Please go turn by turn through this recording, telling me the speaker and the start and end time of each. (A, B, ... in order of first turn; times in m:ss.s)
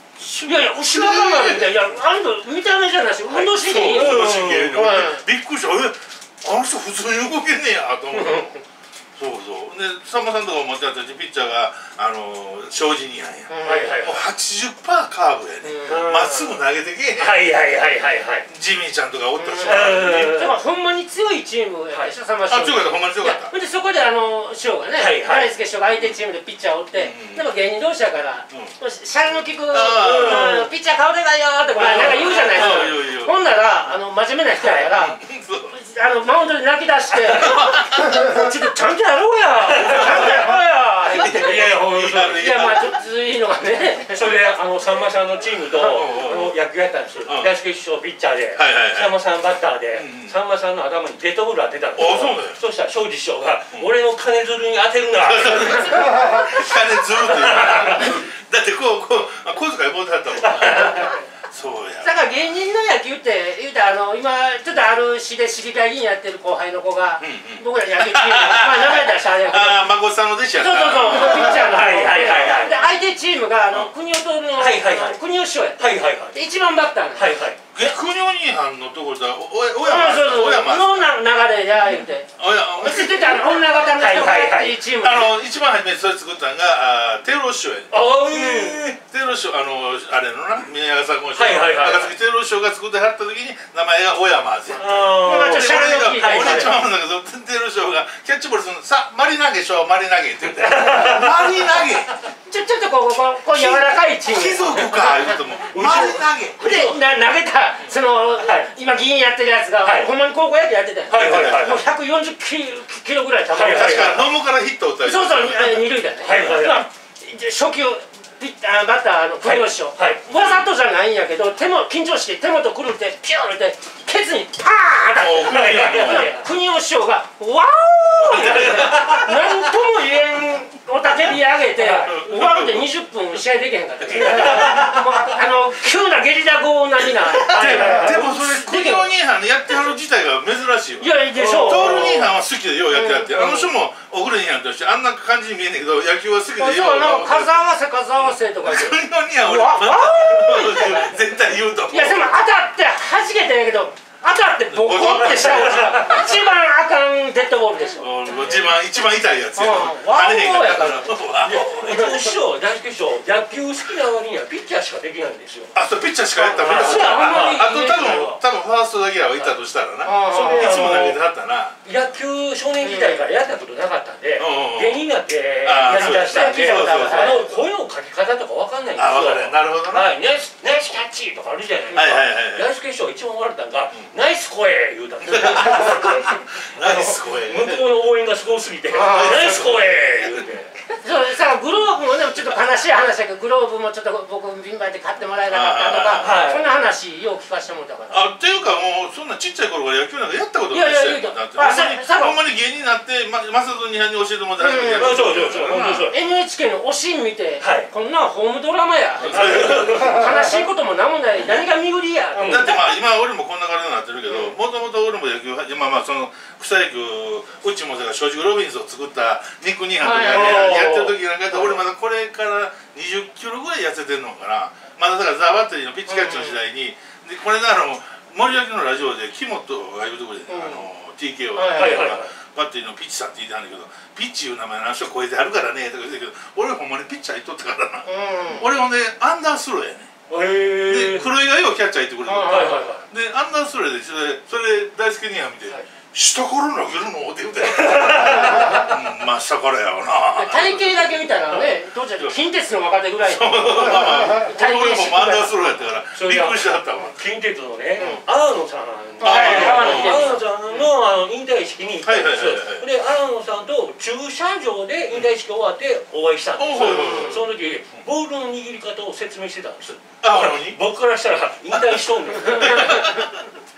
0:00.2-0:05.2 A
0:00.8-0:01.9 B
0:03.3-0:04.8 C
0:03.5-0:08.6 B
0:08.1-0:08.5 C
0:09.2-0:17.5 B
0:13.5-0:14.0 A
0:13.6-0:14.3 C
0:15.6-0:16.0 A
0:15.8-0:16.6 C
0:17.2-0:18.5 C
0:18.5-0:20.1 B
0:19.4-0:41.8 A
0:19.6-0:20.6 C
0:22.5-0:23.5 B
0:25.0-0:25.5 C
0:27.0-0:27.5 B
0:29.7-0:30.7 B
0:30.1-0:30.7 C
0:31.8-0:33.3 B
0:31.9-0:32.8 C
0:34.6-0:34.9 C
0:35.0-0:35.8 B
0:37.2-0:38.1 B
0:39.7-0:42.5 C
0:41.1-0:42.9 B
0:42.4-0:44.3 A
0:44.1-0:56.5 C
0:45.7-0:46.6 B
0:47.3-0:47.5 B
0:48.6-0:49.2 B
0:49.9-0:50.4 B
0:52.0-0:52.6 B
0:55.2-1:02.2 B
0:56.0-0:56.4 A
0:57.0-0:58.2 C
1:00.4-1:01.1 C
1:00.8-1:01.2 A
1:02.0-1:10.0 A
1:07.2-1:11.7 B
1:10.5-1:17.9 A
1:11.2-1:12.9 C
1:14.6-1:15.2 C
1:15.8-1:16.4 C
1:17.1-1:17.6 C
1:17.7-1:21.1 B
1:19.8-1:25.4 A
1:22.4-1:23.7 B
1:23.8-1:24.8 C
1:25.0-1:42.1 B
1:27.9-1:29.0 C
1:31.3-1:32.2 C
1:34.8-1:36.8 C
1:35.2-1:36.8 A
1:40.6-1:41.8 C
1:42.4-1:45.4 A
1:43.5-1:46.9 B
1:45.7-1:47.0 C
1:46.6-1:54.4 A
1:48.4-1:48.7 C
1:49.8-1:50.1 C
1:51.1-1:51.9 C
1:51.1-1:51.9 B
1:53.5-1:54.2 C
1:53.7-1:55.9 B
1:55.0-2:19.1 A
1:56.2-1:56.9 C
1:59.4-2:00.3 C
2:00.3-2:00.7 B
2:05.2-2:06.3 B
2:05.5-2:06.4 C
2:08.2-2:09.2 B
2:08.3-2:09.4 C
2:11.8-2:12.1 C
2:12.0-2:12.9 B
2:14.2-2:15.1 C
2:17.4-2:32.4 B
2:17.5-2:18.2 C
2:21.0-2:22.4 A
2:21.3-2:22.2 C
2:22.9-2:23.7 A
2:26.5-2:31.2 A
2:31.9-2:38.1 A
2:34.7-2:36.4 B
2:35.3-2:36.1 C
2:38.0-2:41.7 B
2:39.6-2:41.2 A
2:41.4-2:45.7 C
2:41.8-2:42.1 A
2:45.7-2:51.8 B
2:46.4-2:48.4 A
2:46.6-2:47.7 C
2:50.0-2:50.8 A
2:50.3-2:51.2 C
2:51.8-3:10.8 C
2:52.8-2:53.2 A
2:54.4-2:55.0 B
2:55.6-2:57.5 B
2:55.9-2:57.5 A
2:59.0-3:00.1 B
3:01.9-3:02.7 B
3:05.2-3:07.9 B
3:08.9-3:09.6 A
3:09.0-3:10.5 B
3:11.0-3:18.3 A
3:15.5-3:16.5 B
3:16.2-3:16.6 C
3:18.1-3:26.1 B
3:20.7-3:22.4 A
3:24.6-3:25.2 A
3:24.8-3:26.2 C
3:26.0-3:33.0 A
3:27.6-3:27.9 C
3:29.2-3:30.1 B
3:29.4-3:30.3 C
3:32.3-3:32.8 C
3:32.5-4:00.1 B
3:34.3-3:34.5 A
3:40.0-3:40.9 A
3:40.3-3:41.8 C
3:46.1-3:46.6 A
3:50.5-3:50.8 A
3:51.6-3:52.2 A
3:51.7-3:52.3 C
3:58.1-3:58.7 A
4:00.3-4:01.3 C
4:00.8-4:12.4 B
4:02.3-4:02.8 A
4:02.4-4:03.0 C
4:07.7-4:08.9 C
4:10.4-4:15.9 A
4:13.2-4:17.2 B
4:16.1-4:33.0 C
4:18.0-4:18.2 B
4:19.2-4:20.4 A
4:19.2-4:20.4 B
4:22.0-4:22.9 B
4:26.6-4:27.4 B
4:26.8-4:27.4 A
4:30.2-4:30.8 B
4:31.7-4:33.4 B
4:32.8-4:33.2 A